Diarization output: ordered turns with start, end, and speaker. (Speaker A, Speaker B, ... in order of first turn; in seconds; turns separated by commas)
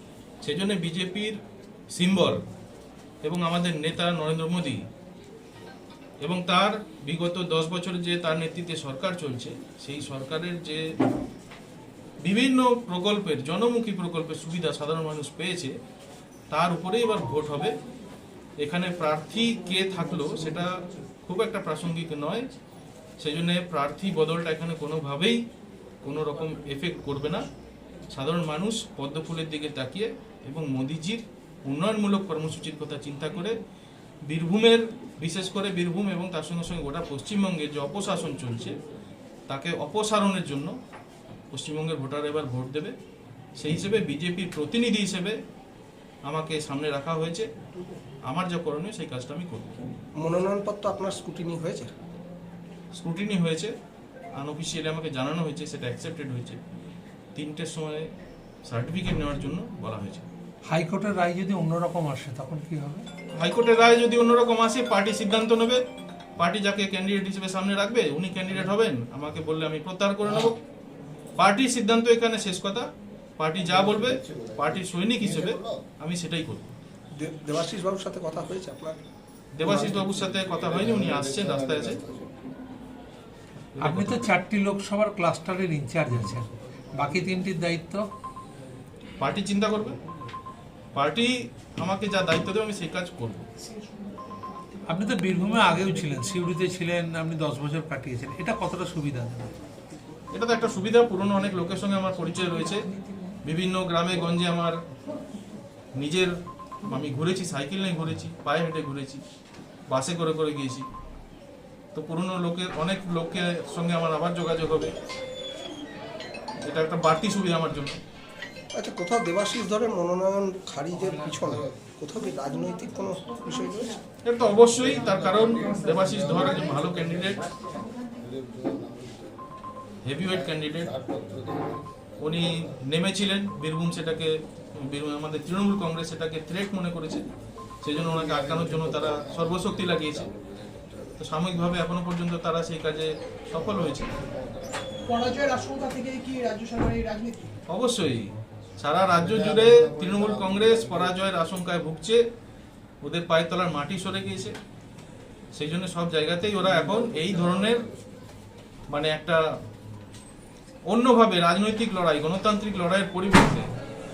Speaker A: 0.4-1.4, Speaker A: 2.0-2.4, Speaker A: 3.2-4.8, Speaker A: 6.2-10.8, Speaker A: 12.2-15.7, Speaker A: 16.5-17.7, Speaker A: 18.6-20.7, Speaker A: 21.2-22.4, Speaker A: 23.2-25.4, Speaker A: 26.0-27.4, Speaker A: 28.1-33.5, Speaker A: 34.3-38.7, Speaker A: 39.5-40.7, Speaker A: 41.5-42.9, Speaker A: 43.6-45.4, Speaker A: 46.3-47.5, Speaker A: 48.3-49.8, Speaker B: 50.2-51.9, Speaker A: 53.0-53.7, Speaker A: 54.4-56.6, Speaker A: 57.4-58.1, Speaker A: 58.7-60.2, Speaker C: 60.7-63.0, Speaker A: 63.4-65.8, Speaker A: 66.4-70.5, Speaker A: 71.4-72.8, Speaker A: 73.4-76.7, Speaker B: 77.2-79.0, Speaker A: 79.5-82.0, Speaker C: 83.8-88.1, Speaker A: 83.8-84.2, Speaker A: 89.2-90.0, Speaker A: 90.9-93.5, Speaker C: 94.9-99.5, Speaker A: 100.3-102.9, Speaker A: 103.4-104.8, Speaker A: 106.0-106.3, Speaker A: 106.8-109.2, Speaker A: 109.9-110.8, Speaker A: 111.9-114.9, Speaker A: 116.7-118.0, Speaker B: 118.7-123.9, Speaker A: 124.2-127.4, Speaker A: 130.0-130.9, Speaker A: 132.2-137.2, Speaker A: 137.8-140.3, Speaker A: 141.2-144.1, Speaker D: 145.1-147.5, Speaker A: 147.7-148.3, Speaker A: 148.8-152.2, Speaker A: 153.0-154.5, Speaker A: 155.6-157.8, Speaker A: 158.9-159.4, Speaker A: 160.9-163.6